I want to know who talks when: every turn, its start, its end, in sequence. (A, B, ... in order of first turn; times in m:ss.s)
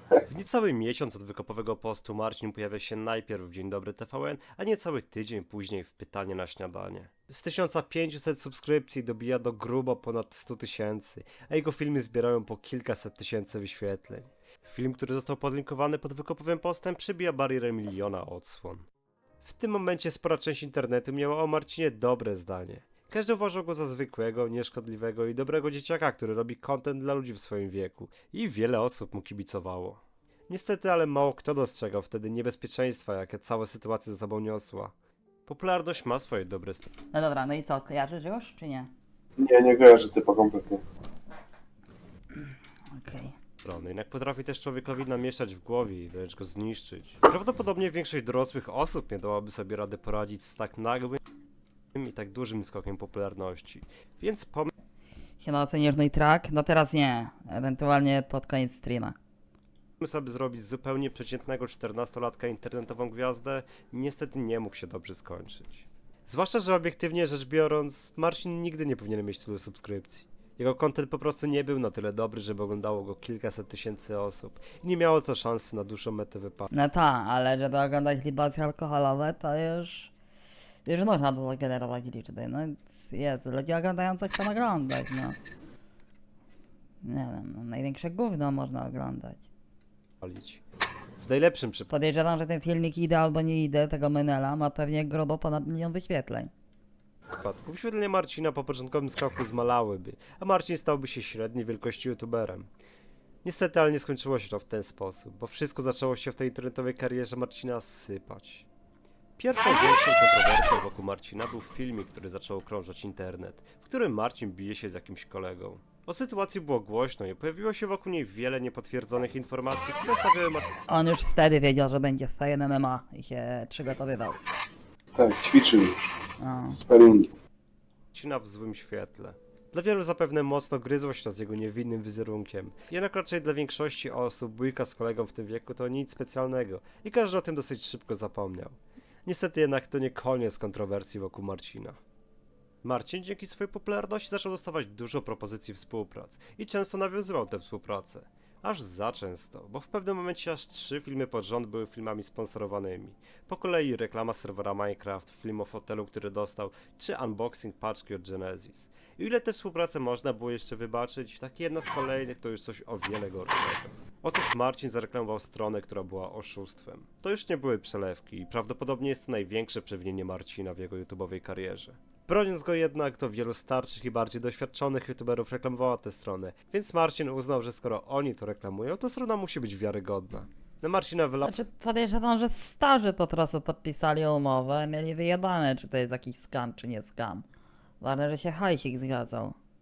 0:00.2-0:18.9 A
0:19.4-0:34.9 A
0:35.4-0:36.9 A
0:37.1-0:38.9 B
0:39.4-0:40.8 C
0:42.9-0:43.3 B
0:43.6-0:51.2 A
0:51.9-0:54.7 A
0:55.4-0:59.2 B
1:00.0-1:16.7 A
1:16.7-1:20.1 B
1:20.8-1:25.4 B
1:27.0-1:29.4 B
1:30.2-1:30.6 A
1:31.2-1:31.9 A
1:31.9-1:36.5 B
1:37.3-1:42.7 A
1:43.4-1:48.7 A
1:49.4-2:00.7 A
2:00.9-2:04.4 B
2:05.2-2:06.1 C
2:06.4-2:06.8 B
2:06.8-2:07.3 C
2:08.1-2:22.0 A
2:22.8-3:01.6 A
3:01.4-3:07.4 B
3:08.0-3:09.6 B